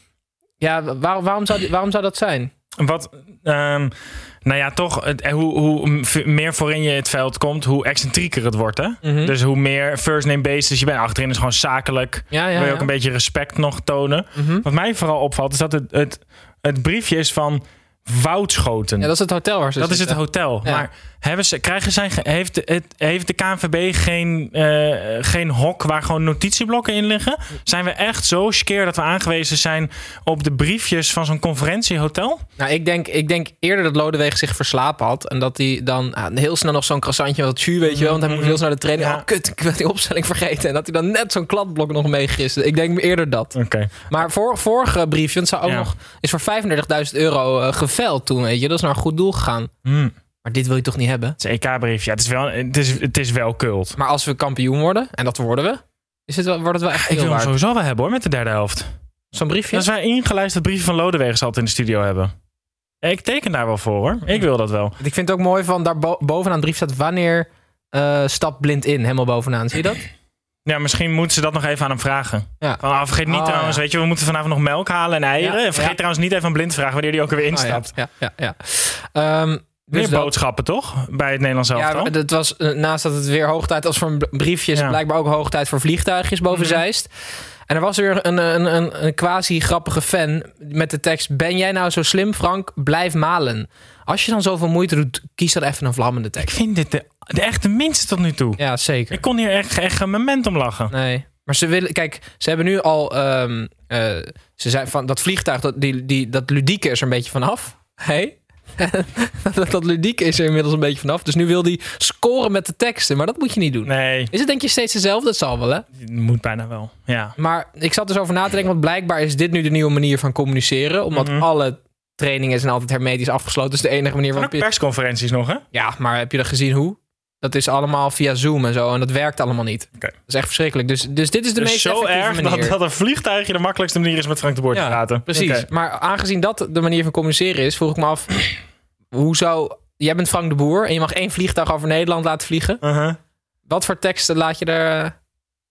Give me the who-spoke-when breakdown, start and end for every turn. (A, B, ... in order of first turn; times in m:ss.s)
0:00.6-0:02.5 A
0:02.8-0:19.1 B
0:09.0-0:09.3 A
0:12.3-0:12.9 A
0:14.4-0:14.6 A
0:19.0-0:20.9 A
0:19.8-0:32.4 B
0:32.6-0:49.7 A
0:37.8-0:39.2 B
0:43.5-0:44.0 B
0:49.8-0:50.1 B
0:50.4-0:51.4 A
0:51.4-0:54.0 B
0:54.0-0:57.5 A
0:56.9-0:58.9 B
0:59.3-0:59.9 A
0:59.7-1:02.3 B
1:03.0-1:05.0 B
1:05.0-1:10.1 A
1:10.6-1:17.9 B
1:12.6-1:13.8 A
1:15.4-1:16.0 A
1:17.5-1:20.3 A
1:19.9-1:22.1 B
1:21.7-1:27.1 A
1:26.5-1:26.8 B
1:27.7-1:36.6 A
1:36.4-1:38.6 B
1:38.6-1:39.2 A
1:39.1-1:40.9 B
1:40.9-1:55.8 A
1:53.8-1:54.3 B
1:55.9-1:57.4 B
1:57.4-2:04.6 A
2:01.1-2:01.4 B
2:04.4-2:05.6 B
2:05.7-2:12.8 A
2:11.6-2:15.6 B
2:14.7-2:18.5 A
2:19.1-2:22.8 A
2:22.8-2:23.2 B
2:23.6-2:25.2 A